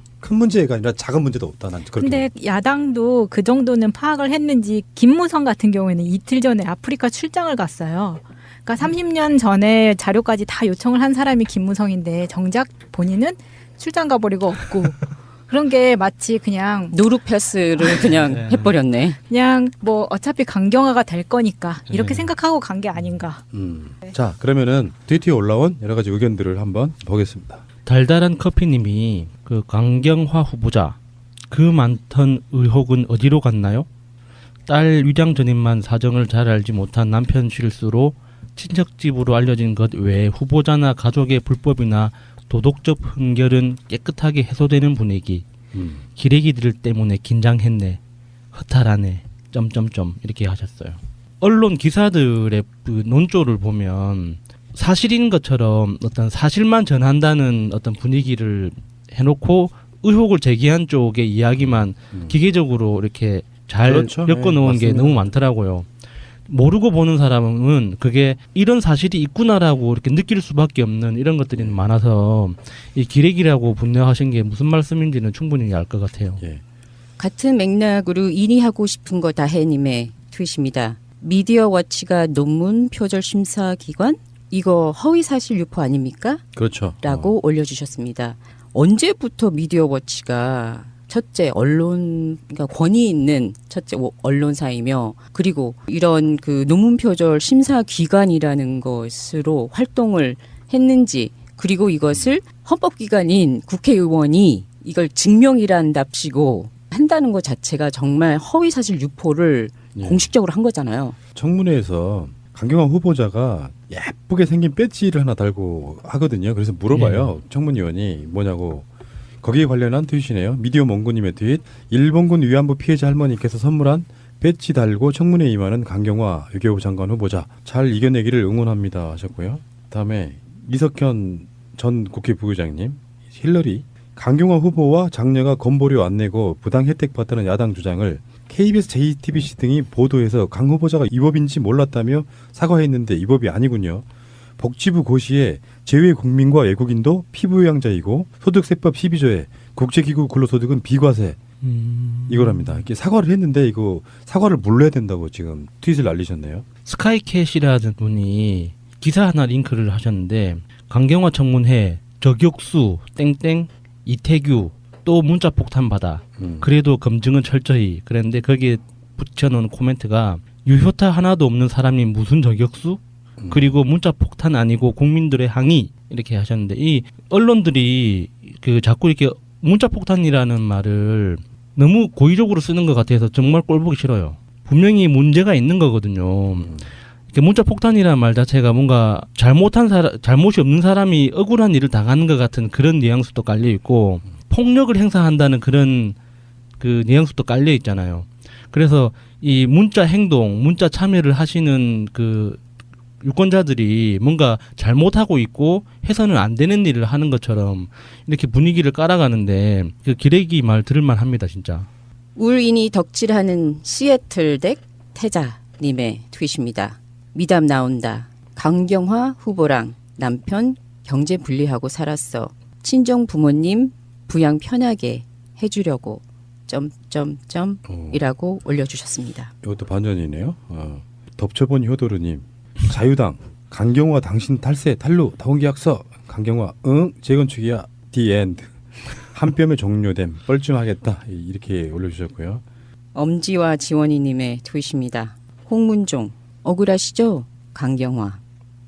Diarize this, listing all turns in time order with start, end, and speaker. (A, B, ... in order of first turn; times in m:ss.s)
0:00.2-0:02.3 A
0:02.0-0:17.0 B
0:16.9-0:19.2 C
0:18.1-0:18.7 D
0:19.3-0:23.4 B
0:21.9-0:22.3 D
0:23.5-0:27.6 A
0:27.8-0:31.0 D
0:31.5-0:33.9 D
0:34.7-0:45.4 D
0:45.7-0:46.0 A
0:46.2-0:48.0 D
0:48.5-1:05.9 D
1:01.6-1:02.4 A
1:03.8-1:05.2 A
1:06.5-1:16.4 D
1:11.5-1:11.8 A
1:17.2-1:26.4 C
1:26.5-1:27.3 A
1:27.0-1:51.2 C
1:49.9-1:50.3 A
1:51.3-1:58.9 A
1:56.9-1:57.3 D
1:59.4-2:24.0 A
2:24.6-2:31.4 A
2:31.6-2:32.9 D
2:32.3-2:36.6 A
2:36.8-3:06.7 D
2:46.4-2:46.7 A
2:53.4-2:53.8 A
3:06.6-3:06.9 A
3:07.3-3:16.2 D
3:16.8-3:22.6 D
3:23.2-3:31.9 D
3:32.3-3:49.5 C
3:47.9-3:48.2 A
3:49.6-4:02.6 A
4:03.1-4:08.4 C